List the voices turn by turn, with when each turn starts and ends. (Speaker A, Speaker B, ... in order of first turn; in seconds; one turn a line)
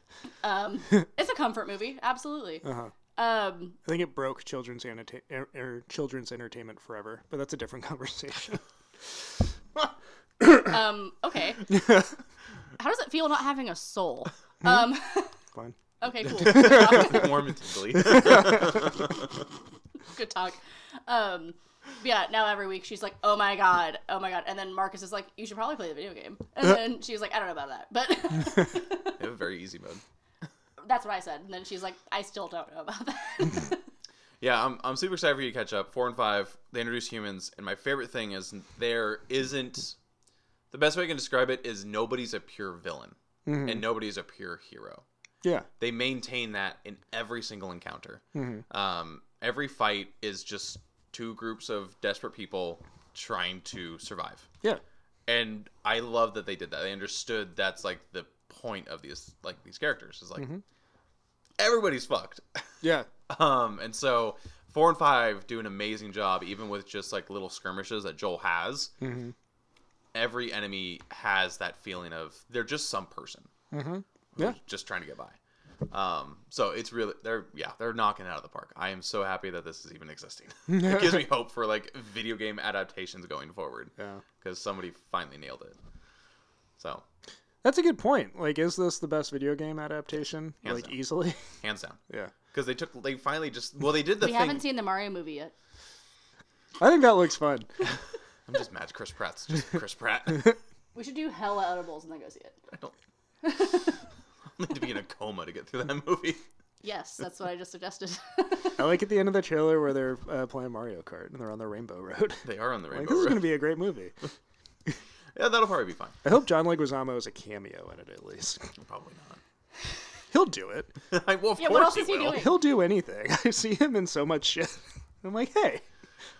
Speaker A: 0.4-3.8
Speaker B: 2.6-2.9
Speaker B: 3.8-8.6
Speaker A: 10.5-11.8
Speaker B: 11.7-12.1
Speaker A: 12.8-15.4
Speaker A: 16.0-17.3
Speaker C: 16.2-19.2
Speaker B: 16.3-17.3
Speaker B: 17.9-18.8
Speaker A: 20.1-29.2
Speaker C: 29.2-30.0
Speaker A: 30.8-33.8
Speaker C: 34.4-40.0
Speaker C: 40.7-45.0
Speaker B: 43.5-43.9
Speaker C: 45.8-54.5
Speaker B: 48.3-48.6
Speaker C: 55.3-60.5
Speaker C: 61.6-62.6
Speaker B: 62.8-63.1
Speaker C: 63.3-68.9
Speaker B: 69.0-69.3
Speaker C: 70.1-73.5
Speaker B: 73.7-74.6
Speaker C: 74.3-75.4
Speaker C: 75.9-85.8
Speaker B: 80.7-81.3
Speaker B: 84.0-84.2
Speaker C: 86.8-87.0
Speaker B: 87.6-91.4
Speaker C: 90.6-91.0
Speaker C: 91.5-92.0
Speaker B: 92.1-92.3
Speaker C: 92.5-94.6
Speaker A: 94.2-95.5
Speaker B: 96.8-97.7
Speaker C: 98.5-100.6
Speaker A: 100.9-102.6
Speaker C: 104.6-106.4
Speaker A: 106.8-108.8
Speaker B: 108.8-114.1
Speaker C: 112.4-113.6
Speaker C: 115.3-116.2
Speaker B: 116.2-118.7
Speaker C: 118.8-119.4
Speaker B: 120.3-120.9
Speaker C: 121.1-122.5
Speaker A: 121.6-122.5
Speaker B: 122.2-125.8